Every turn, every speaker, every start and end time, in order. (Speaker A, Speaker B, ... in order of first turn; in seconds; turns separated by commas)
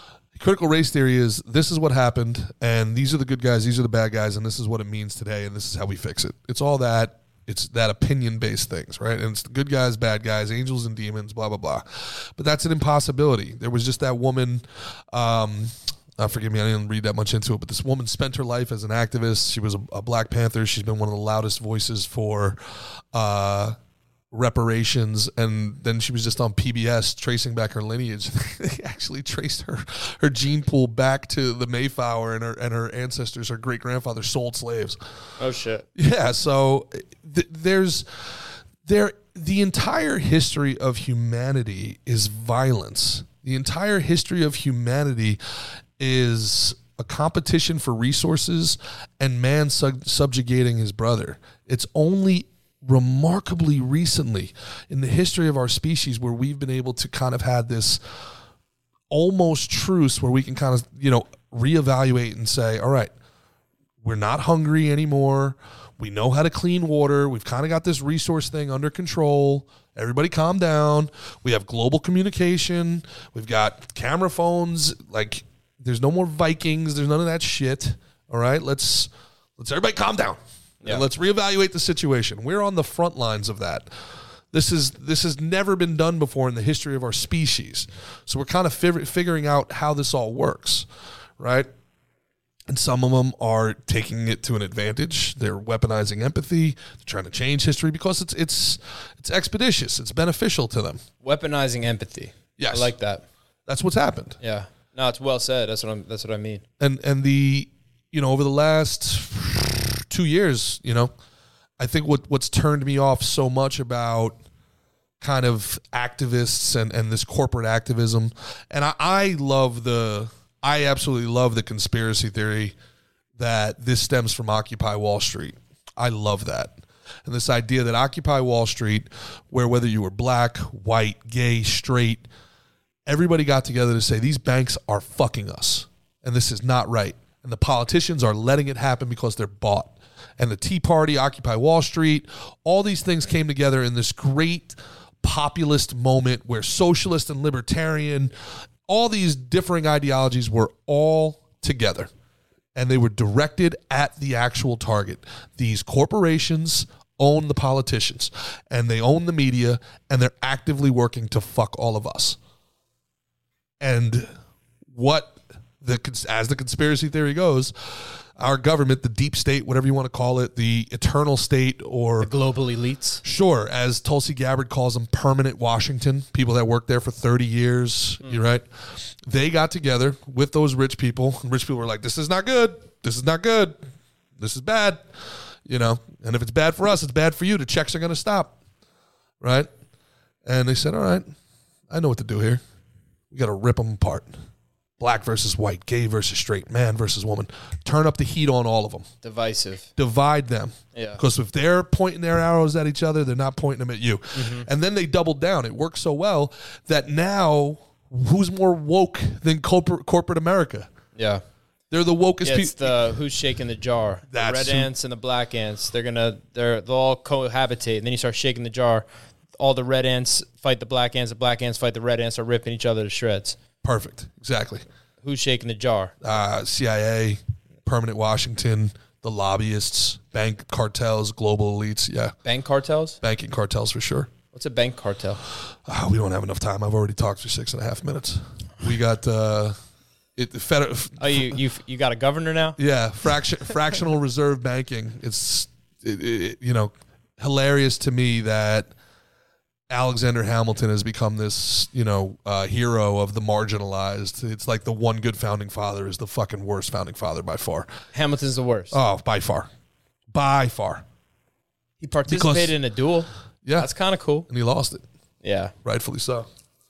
Speaker A: 0.3-23.8, Speaker A: 24.3-35.0, Speaker B: 35.4-35.8, Speaker A: 35.9-45.4, Speaker A: 46.0-58.0, Speaker A: 59.1-63.1, Speaker A: 64.0-83.9, Speaker A: 84.5-90.9, Speaker A: 91.4-91.7, Speaker A: 92.7-101.0, Speaker B: 101.2-103.2, Speaker A: 102.6-102.9, Speaker A: 103.7-104.4, Speaker B: 104.4-106.6, Speaker A: 106.8-111.1, Speaker A: 111.8-114.4, Speaker A: 115.2-122.7, Speaker A: 123.4-132.3, Speaker A: 133.1-148.3, Speaker A: 148.9-152.1, Speaker A: 152.7-162.4, Speaker A: 163.8-164.3, Speaker A: 164.9-172.3, Speaker B: 172.2-173.2, Speaker A: 173.2-183.8, Speaker A: 184.4-188.5, Speaker A: 189.4-189.7, Speaker A: 190.4-191.2, Speaker A: 191.9-192.6, Speaker A: 193.3-194.3, Speaker A: 195.0-199.1, Speaker B: 199.2-199.9, Speaker A: 200.0-210.9, Speaker B: 200.9-201.2, Speaker B: 204.3-204.7, Speaker B: 211.2-211.4, Speaker A: 211.9-213.0, Speaker B: 212.4-219.1, Speaker A: 214.3-214.9, Speaker B: 219.6-223.6, Speaker A: 223.8-224.8, Speaker B: 225.2-226.1, Speaker A: 226.2-232.3, Speaker B: 232.4-233.2, Speaker A: 233.2-234.3, Speaker B: 234.5-235.4, Speaker A: 235.8-239.8, Speaker A: 240.3-241.6, Speaker B: 241.2-242.8, Speaker A: 242.8-248.9, Speaker A: 249.9-257.9, Speaker B: 258.1-259.0, Speaker A: 258.9-259.7, Speaker A: 260.3-261.0, Speaker B: 262.0-264.5, Speaker A: 262.3-262.8, Speaker A: 263.6-263.9, Speaker A: 264.5-265.0, Speaker B: 265.4-265.7, Speaker A: 265.8-266.5